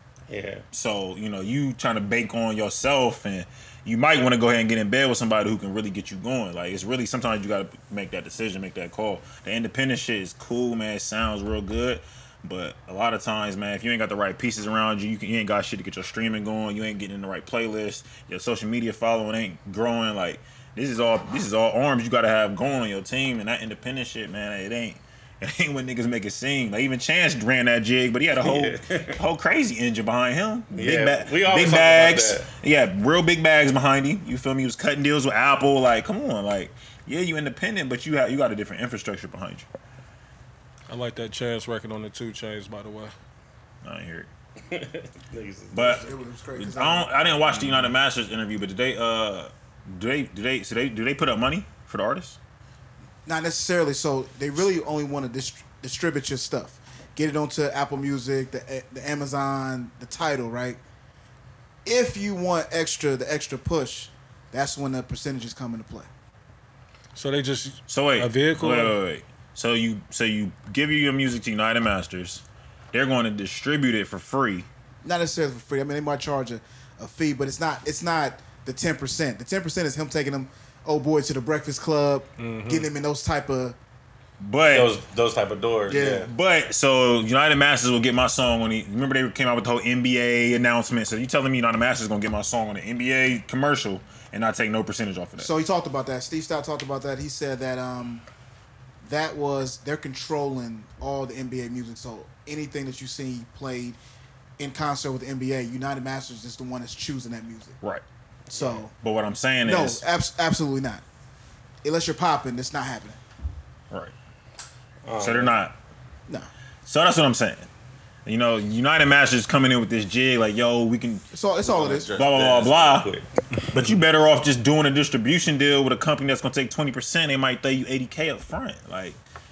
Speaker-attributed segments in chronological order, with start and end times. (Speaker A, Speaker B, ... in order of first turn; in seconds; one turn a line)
Speaker A: 0.3-0.6
Speaker B: 0.7-39.7
Speaker A: 28.4-29.2
Speaker A: 30.7-32.5
Speaker C: 40.9-43.1
Speaker B: 43.8-44.3
Speaker A: 44.7-46.0
Speaker B: 45.7-52.4
Speaker D: 45.8-47.1
Speaker D: 53.2-60.8
Speaker D: 61.8-66.1
Speaker C: 67.1-68.9
Speaker B: 67.9-74.7
Speaker D: 75.0-83.8
Speaker C: 82.4-82.9
Speaker B: 84.4-84.9
Speaker A: 84.7-86.3
Speaker D: 85.9-86.3
Speaker B: 86.2-95.5
Speaker D: 95.4-98.2
Speaker D: 99.0-104.0
Speaker D: 104.6-107.8
Speaker D: 108.5-108.9
Speaker B: 108.9-110.0
Speaker D: 109.6-111.0
Speaker D: 111.8-113.2
Speaker A: 115.0-115.5
Speaker B: 115.2-115.7
Speaker B: 116.8-117.7
Speaker B: 118.2-121.2
Speaker D: 121.3-122.1
Speaker A: 121.6-123.2
Speaker B: 122.1-123.1
Speaker B: 123.7-129.2